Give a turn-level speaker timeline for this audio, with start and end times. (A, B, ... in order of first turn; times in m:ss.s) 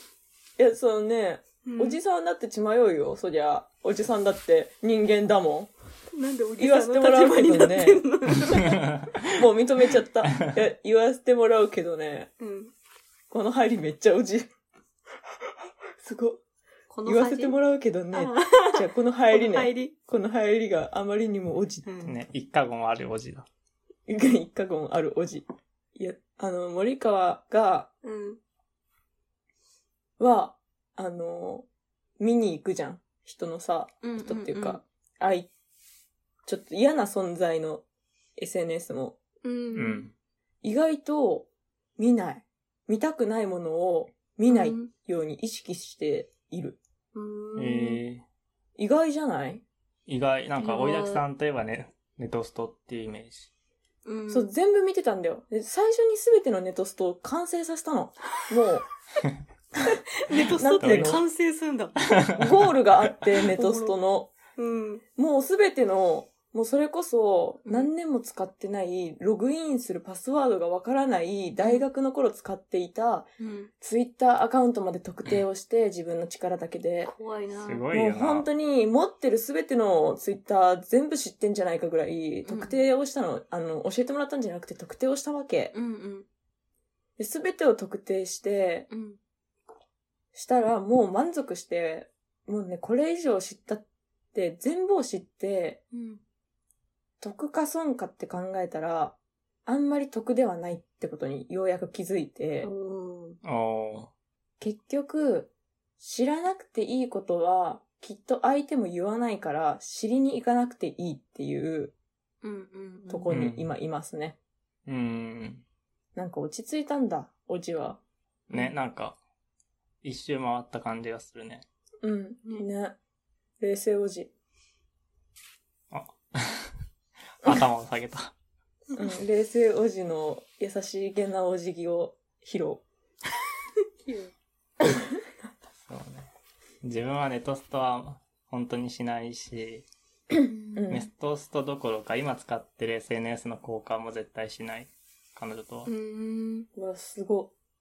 0:00.6-0:05.7 A
0:01.6-0:02.0 B
0:06.1-0:09.0 B
0:06.6-0:08.0 A
0:08.8-0:09.3 C
0:09.3-0:12.3 A
0:12.4-0:12.7 B
0:13.3-0:14.5 A
0:16.0-0:16.4 A
0:16.9-0:17.6 B
0:17.1-0:21.9 A
0:18.1-0:19.9 B
0:21.8-0:22.2 B
0:22.0-0:23.5 C
0:24.1-0:27.9 A
0:28.0-0:28.4 B
0:30.2-0:31.7 A
0:32.2-0:35.5 A
0:34.0-0:34.8 B
0:36.4-0:37.8 A
0:38.4-0:39.2 A
0:39.4-0:40.1 B
0:39.8-0:40.1 C
0:40.6-0:46.8 A
0:44.5-0:44.9 B
0:47.1-0:48.0 B
0:47.6-0:48.2 C
0:48.8-0:49.6 A
0:50.1-0:53.5 C
0:50.6-0:51.2 B
0:54.0-0:54.5 B
0:54.3-0:58.9 A
0:59.9-1:02.1 B
1:00.5-1:01.2 A
1:00.8-1:01.2 C
1:02.1-1:02.7 C
1:02.4-1:04.3 A
1:03.6-1:04.0 B
1:04.6-1:05.0 B
1:05.2-1:13.3 A
1:07.7-1:07.9 B
1:13.4-1:13.7 B
1:13.8-1:17.1 A
1:17.0-1:17.9 B
1:17.6-1:18.5 C
1:17.9-1:25.7 A
1:22.5-1:22.8 B
1:25.7-1:26.3 B
1:27.2-1:28.9 A
1:28.9-1:29.2 B
1:30.3-1:35.8 A
1:35.9-1:36.2 B
1:37.2-1:42.7 A
1:42.6-1:43.4 B
1:43.4-1:44.1 C
1:44.6-1:51.9 A
1:52.4-1:53.3 B
1:53.1-1:54.4 A
1:53.3-1:53.7 C
1:54.9-1:55.6 C
1:56.2-1:58.0 A
1:58.5-1:59.2 C
2:00.0-2:01.6 C
2:02.0-2:03.0 A
2:03.6-2:04.3 A
2:05.9-2:06.7 C
2:07.4-2:08.3 C
2:08.9-2:12.8 A
2:14.0-2:14.3 B
2:15.9-2:16.3 C
2:16.8-2:19.9 C
2:20.5-2:20.9 B
2:20.8-2:21.1 A
2:20.9-2:25.9 C
2:25.9-2:26.7 B
2:26.8-2:27.5 A